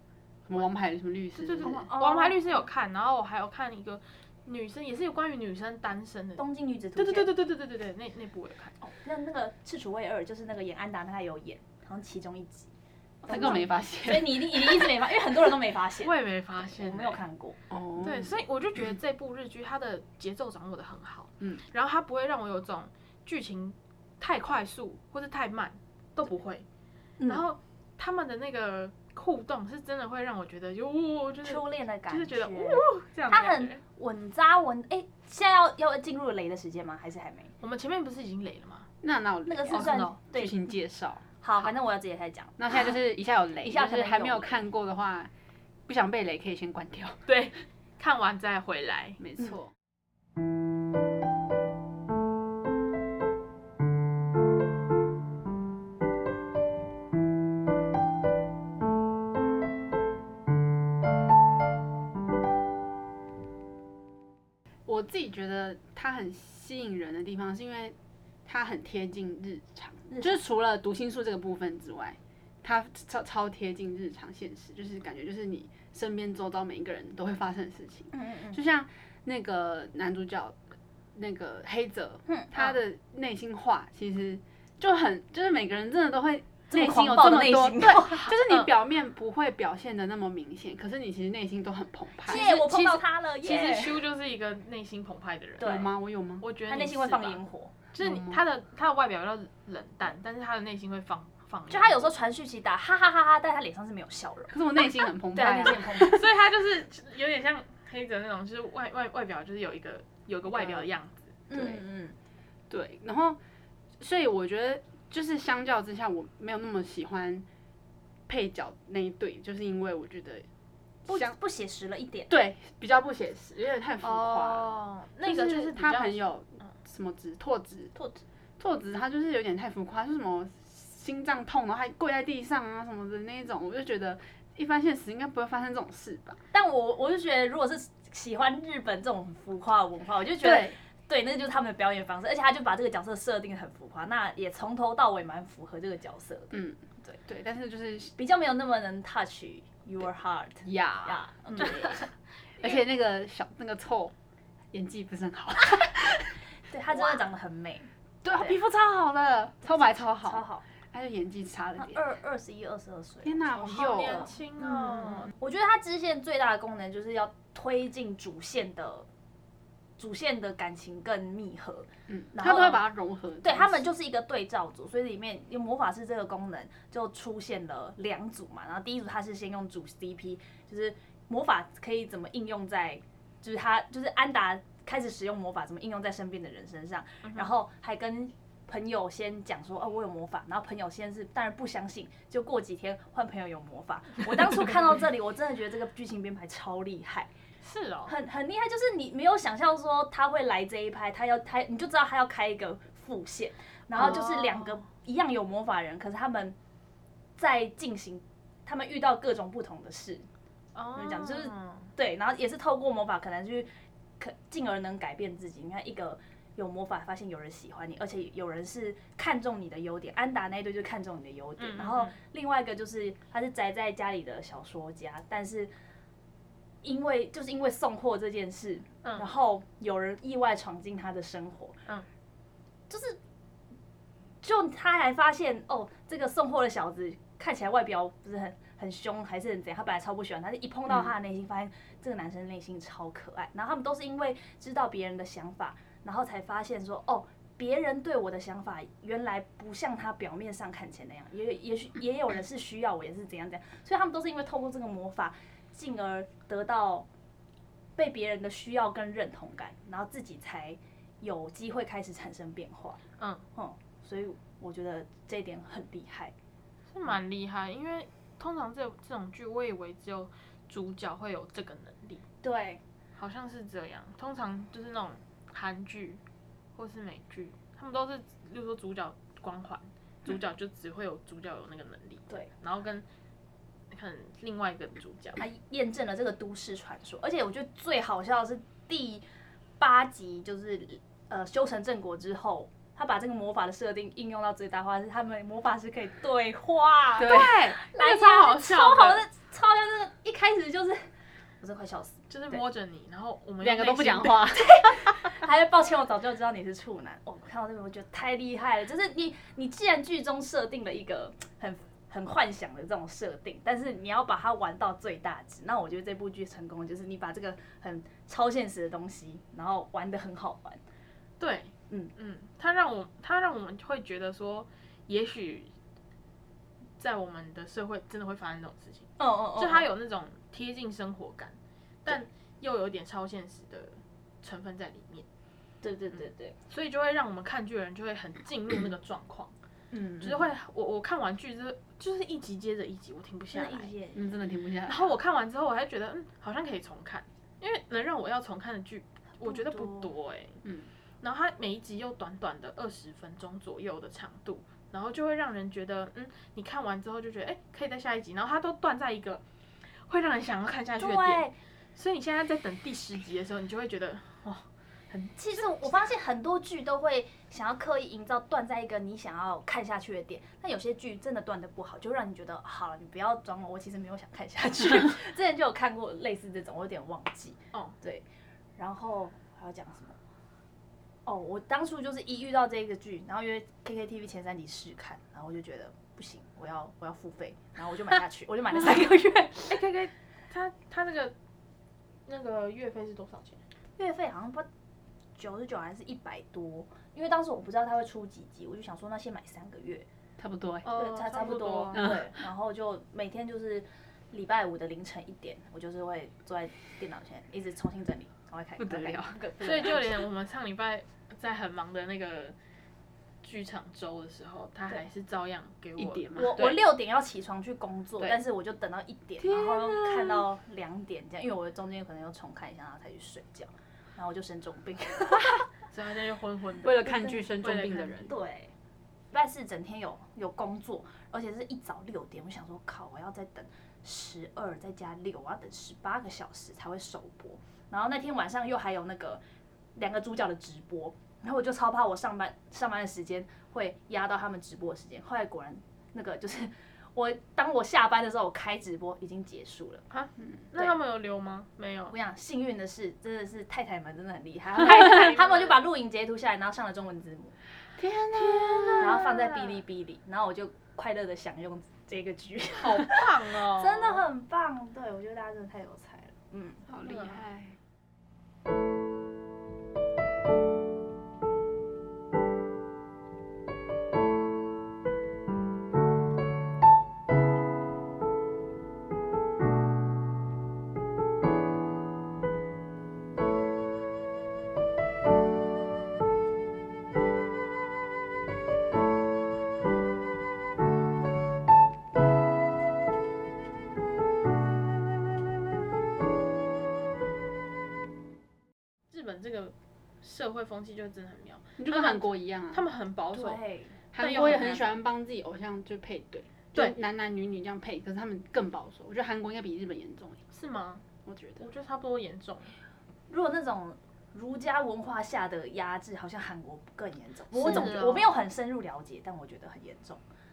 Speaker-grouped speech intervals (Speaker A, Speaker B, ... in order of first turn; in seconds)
Speaker A: 0.5-1.9, 13.3-15.2, 17.7-18.4, 39.0-41.7, 42.6-45.3, 45.9-47.3, 49.2-49.7, 64.9-80.6, 81.2-93.0, 95.6-96.5, 98.0-98.4, 104.5-106.2, 110.5-110.9, 112.7-113.4, 114.0-117.5, 118.3-120.5, 121.1-121.4, 122.3-127.9, 128.6-136.4, 140.4-140.8, 146.5-148.1, 150.7-152.1, 152.6-154.1, 154.7-156.4, 158.2-162.0, 163.2-164.3, 172.1-173.8, 297.2-297.6, 303.6-305.3, 344.1-345.1, 350.6-350.9, 400.4-400.9, 401.9-402.3, 408.8-410.0, 416.0-416.8, 419.4-420.5, 426.8-428.3, 458.0-459.3, 466.9-467.8, 501.8-502.9, 504.1-510.4, 511.2-511.6, 517.6-517.9
Speaker B: 1.3-6.4, 7.0-8.8, 16.0-17.2, 18.0-26.6, 27.3-33.8, 37.6-38.9, 39.7-40.2, 47.3-49.2, 92.3-92.6, 93.4-95.7, 96.4-97.4, 97.9-102.1, 105.5-111.4, 124.0-126.3, 163.7-165.3, 187.2-187.5, 197.6-198.1, 203.9-204.8, 210.8-211.9, 221.6-222.2, 229.0-229.3, 263.2-263.4, 266.9-272.2, 273.2-276.2, 276.8-283.1, 283.9-285.4, 297.2-299.2, 302.3-304.5, 321.4-325.7, 327.0-335.3, 336.2-339.5, 340.2-343.9, 344.9-350.6, 351.2-359.4, 360.1-364.7, 389.7-391.3, 392.3-393.6, 400.9-402.1, 409.6-412.6, 413.4-416.8, 425.9-428.3, 450.1-452.1, 454.8-455.8, 458.4-459.8, 462.8-464.2, 467.0-467.4, 499.1-503.6, 504.1-504.9, 510.5-511.1, 511.6-512.8, 517.5-518.4
Speaker C: 1.6-2.4, 6.4-7.3, 8.8-17.6, 27.2-27.5, 31.4-37.5, 39.5-40.5, 41.4-42.8, 43.6-44.6, 70.1-70.4, 78.1-78.6, 86.7-88.7, 92.3-94.0, 95.6-95.9, 96.7-97.7, 101.7-104.6, 105.3-106.2, 111.5-112.2, 121.1-122.3, 128.0-128.2, 136.5-147.2, 148.2-152.1, 156.7-158.6, 160.2-160.7, 161.8-169.1, 170.0-172.8, 173.4-197.3, 198.1-206.6, 207.4-210.3, 210.9-225.7, 226.8-231.8, 232.9-233.2, 234.4-257.1, 258.0-263.0, 263.6-266.3, 272.4-272.8, 285.4-289.2, 289.8-301.0, 301.6-302.6, 304.5-320.8, 329.2-329.9, 335.8-336.6, 339.9-340.5, 343.5-344.2, 349.4-350.1, 361.0-361.6, 365.1-378.2, 378.8-380.2, 381.3-389.8, 394.0-394.7, 395.4-400.1, 400.9-410.2, 416.4-425.6, 428.2-428.7, 429.3-439.4, 439.9-450.0, 452.1-457.6, 459.0-466.9, 503.3-504.8, 513.3-520.2